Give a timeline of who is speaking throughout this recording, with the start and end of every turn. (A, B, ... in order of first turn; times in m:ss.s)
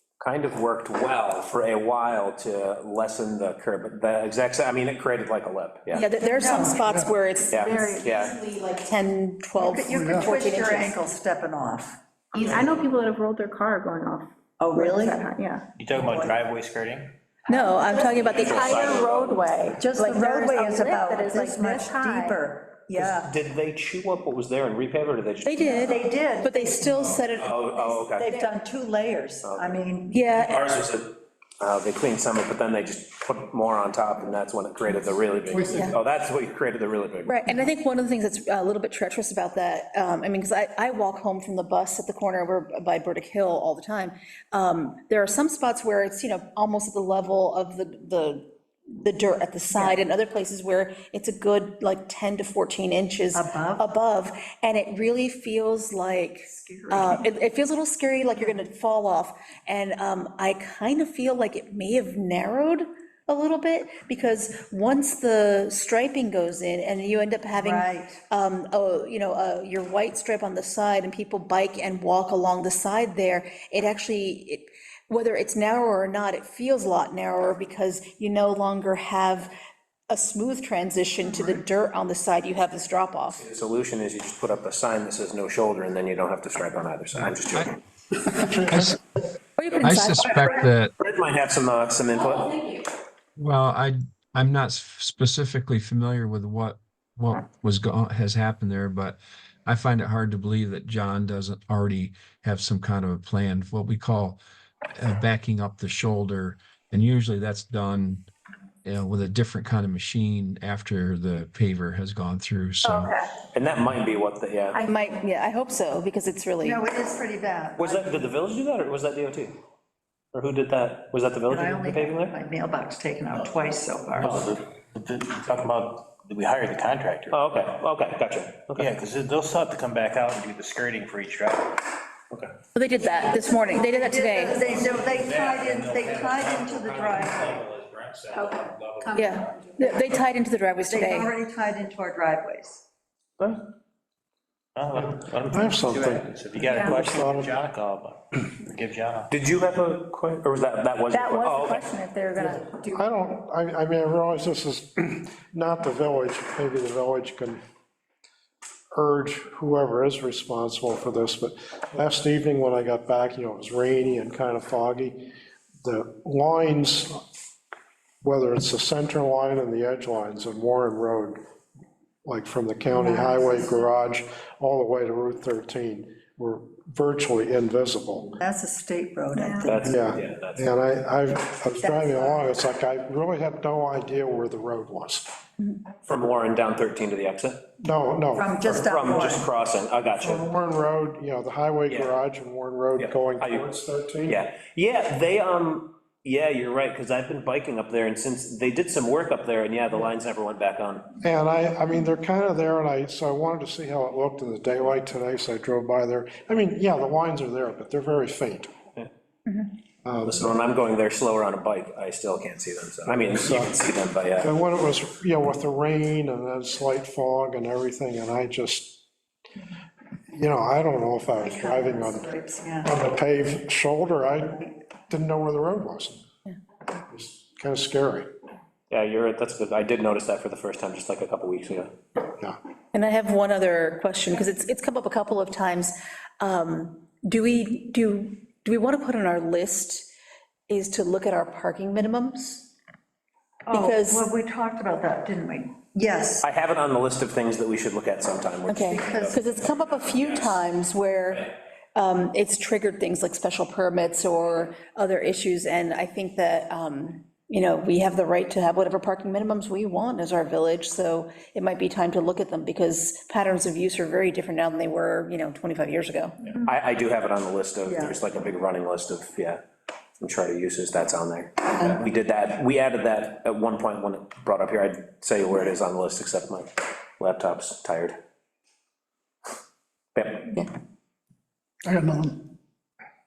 0:00.2-0:06.1 A
0:06.0-0:11.0 B
0:06.3-0:07.0 C
0:07.5-0:08.4 A
0:09.6-0:12.7 C
0:12.4-0:15.6 D
0:14.6-0:15.3 C
0:15.8-0:17.2 E
0:16.0-0:16.4 C
0:17.5-0:18.8 B
0:17.5-0:22.4 D
0:18.2-0:19.5 A
0:19.8-0:23.3 C
0:23.0-0:25.9 A
0:25.4-0:28.5 B
0:25.6-0:27.1 C
0:27.2-0:28.3 A
0:28.2-0:30.2 C
0:29.4-0:29.8 A
0:30.1-0:30.6 B
0:30.3-0:37.4 A
0:35.7-0:35.9 B
0:37.2-1:19.5 B
0:53.3-0:53.9 C
0:56.5-0:57.3 C
1:07.6-1:08.2 C
1:20.1-1:23.4 B
1:23.4-1:27.8 A
1:28.3-1:28.9 F
1:28.7-1:29.0 G
1:29.6-1:30.6 B
1:29.8-1:30.9 G
1:31.0-1:32.8 A
1:33.4-1:44.4 G
1:45.0-1:48.3 G
1:48.8-1:53.2 G
1:53.5-1:54.8 A
1:54.8-1:56.8 B
1:56.6-1:58.2 C
1:57.8-1:59.6 A
2:00.3-2:02.4 A
2:01.5-2:04.5 C
2:04.2-2:07.5 E
2:07.3-2:08.9 A
2:08.8-2:11.8 E
2:12.8-2:14.6 B
2:13.4-2:17.6 C
2:14.6-2:19.4 E
2:19.1-2:19.4 D
2:19.2-2:21.3 B
2:20.8-2:22.8 C
2:24.8-2:29.3 E
2:25.5-2:27.6 F
2:29.3-2:32.0 A
2:31.1-2:33.0 D
2:32.4-2:37.6 F
2:38.9-2:45.3 F
2:45.8-2:47.2 F
2:48.2-2:51.4 F
2:52.2-2:58.4 F
2:52.9-2:53.6 C
2:58.4-2:59.9 C
2:59.4-2:59.6 D
2:59.6-3:00.7 A
2:59.8-3:05.3 F
3:01.8-3:02.5 C
3:06.1-3:07.7 A
3:07.8-3:08.8 F
3:08.4-3:09.5 C
3:08.8-3:10.5 A
3:10.2-3:14.4 F
3:11.9-3:12.2 A
3:13.0-3:13.7 A
3:14.2-3:21.1 A
3:21.2-3:28.7 F
3:30.0-3:30.5 F
3:30.2-3:34.5 A
3:33.4-3:33.8 F
3:34.4-3:39.0 F
3:40.3-3:46.2 F
3:41.4-3:43.0 C
3:44.5-3:44.7 C
3:47.1-3:48.3 F
3:48.9-3:51.9 A
3:52.9-4:00.1 B
4:00.7-4:02.7 B
4:03.7-4:06.5 C
4:03.7-4:04.2 B
4:06.4-4:10.6 A
4:08.7-4:26.4 B
4:08.9-4:09.4 C
4:26.6-4:29.6 A
4:27.9-4:28.2 C
4:30.2-4:38.1 A
4:40.2-4:40.6 A